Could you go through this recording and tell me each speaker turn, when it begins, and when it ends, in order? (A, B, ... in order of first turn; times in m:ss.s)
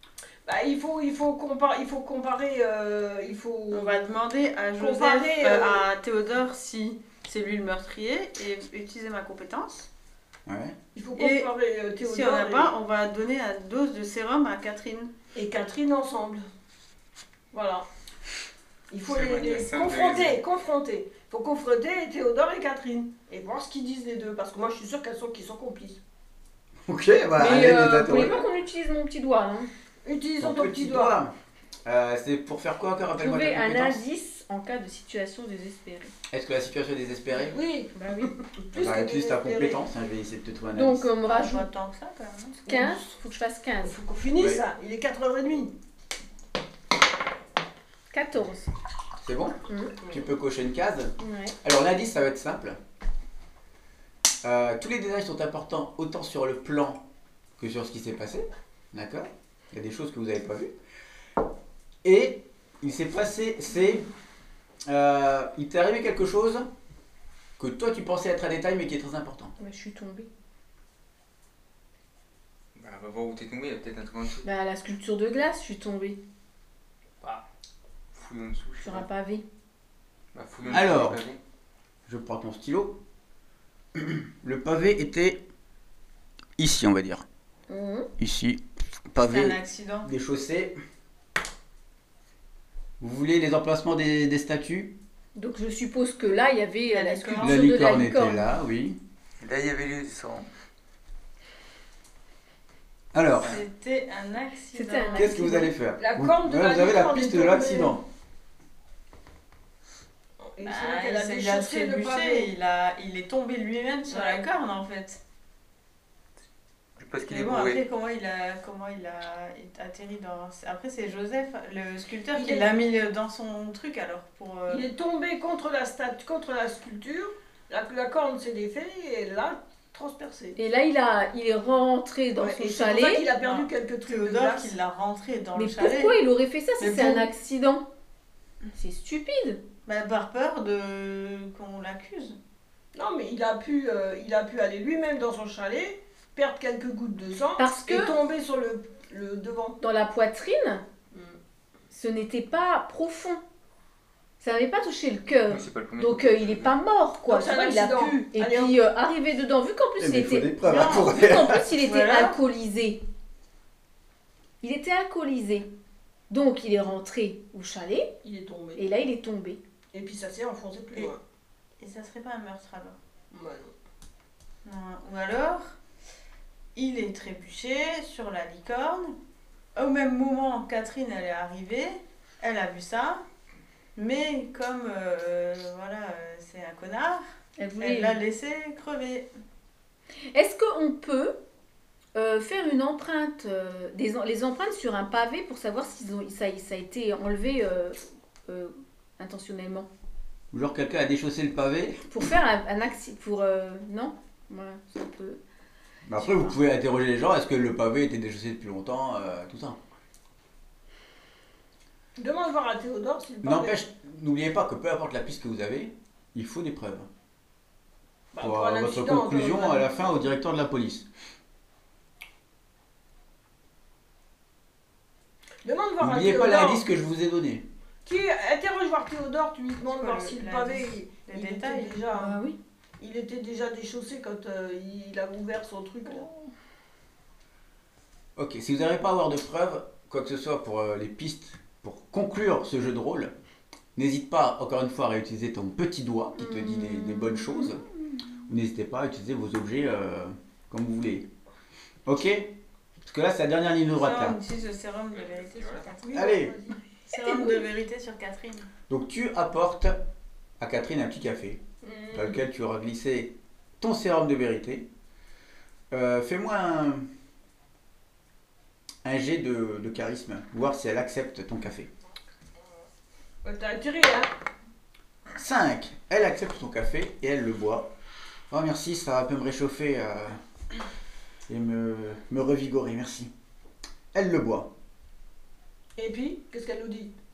0:00.4-0:04.0 A
0:03.7-0:09.9 B
0:04.8-0:05.8 A
0:10.4-0:10.8 C
0:10.9-0:12.7 A
0:11.2-0:15.1 B
0:15.3-0:16.4 A
0:17.5-0:17.9 A
0:18.9-0:26.0 A
0:19.0-0:20.4 D
0:26.8-0:28.4 C
0:27.4-0:29.7 E
0:30.0-0:31.1 A
0:30.4-0:31.3 C
0:31.8-0:34.0 C
0:33.2-0:36.1 E
0:36.3-0:37.6 C
0:37.5-0:39.8 A
0:37.9-0:38.3 E
0:38.7-0:41.1 C
0:40.7-0:41.6 E
0:41.2-0:42.6 B
0:42.6-0:43.0 A
0:42.6-0:44.0 E
0:43.8-0:45.7 A
0:44.4-0:44.6 C
0:48.1-0:48.7 E
0:49.2-0:52.8 C
0:49.7-0:50.0 E
0:51.2-0:51.5 E
0:54.4-0:57.0 C
0:57.6-1:00.7 C
1:02.0-1:04.0 C
1:04.8-1:06.7 C
1:07.6-1:09.5 C
1:09.6-1:10.3 E
1:12.8-1:14.4 D
1:14.4-1:16.2 E
1:18.1-1:19.0 D
1:18.8-1:19.4 E
1:20.3-1:21.4 D
1:20.6-1:21.2 C
1:22.1-1:23.0 C
1:23.9-1:25.4 C
1:26.6-1:27.2 C
1:27.7-1:28.1 E
1:28.2-1:30.8 C
1:29.2-1:30.1 B
1:33.0-1:35.0 C
1:35.4-1:38.5 E
1:36.9-1:37.6 B
1:37.4-1:39.0 C
1:39.4-1:40.4 D
1:43.1-1:43.6 C
1:43.4-1:45.3 B
1:44.7-1:45.7 E
1:45.2-1:48.0 C
1:46.0-1:48.0 A
1:50.4-1:52.5 A
1:50.6-1:55.2 B
1:54.1-1:54.4 A
1:57.0-1:57.8 D
1:57.2-2:04.9 B
2:02.3-2:02.7 A
2:04.7-2:10.6 A
2:10.6-2:13.2 E
2:12.4-2:14.7 A
2:13.4-2:16.2 B
2:15.5-2:17.8 E
2:16.8-2:17.3 B
2:18.7-2:19.6 E
2:19.8-2:22.4 B
2:22.9-2:29.8 A
2:27.6-2:28.1 E
2:29.8-2:30.8 E
2:31.1-2:31.4 A
2:31.9-2:33.4 E
2:34.4-2:43.0 E
2:35.5-2:36.7 D
2:37.3-2:38.8 A
2:40.0-2:41.6 C
2:40.6-2:41.1 B
2:41.7-2:42.4 B
2:44.6-2:45.7 E
2:46.3-2:48.1 E
2:48.2-2:48.8 A
2:48.8-2:49.6 E
2:49.9-2:51.2 A
2:51.8-2:53.0 B
2:53.3-2:53.7 A
2:54.6-2:55.8 B
2:56.7-2:59.1 B
2:59.7-3:03.2 B
3:04.0-3:07.2 B
3:07.6-3:08.2 E
3:07.8-3:09.3 B
3:10.3-3:11.4 E
3:12.1-3:19.9 E
3:20.5-3:22.1 C
3:22.1-3:25.4 E
3:26.0-3:29.8 C
3:26.2-3:26.6 E
3:32.2-3:33.8 A
3:33.4-3:37.1 C
3:38.3-3:40.1 A
3:38.4-3:41.1 C
3:45.6-3:46.8 A
3:46.0-3:47.6 C
3:48.0-3:52.4 A
3:49.9-3:52.0 B
3:52.1-3:52.6 E
3:53.0-3:56.3 A
3:58.4-4:03.3 C
4:04.0-4:07.8 C
4:06.4-4:07.8 E
4:08.5-4:11.3 C
4:12.0-4:14.4 C
4:13.9-4:16.3 B
4:15.2-4:15.9 D
4:16.0-4:16.8 A
4:16.1-4:16.6 C
4:17.1-4:18.7 B
4:17.1-4:17.7 E
4:18.9-4:20.0 C
4:20.6-4:21.6 C
4:21.8-4:22.4 A
4:22.1-4:24.9 C
4:25.9-4:27.0 C
4:29.0-4:31.9 C
4:33.4-4:34.3 A
4:35.3-4:37.9 C
4:38.5-4:40.4 C
4:41.5-4:43.3 C
4:44.1-4:44.7 C
4:46.0-4:47.1 A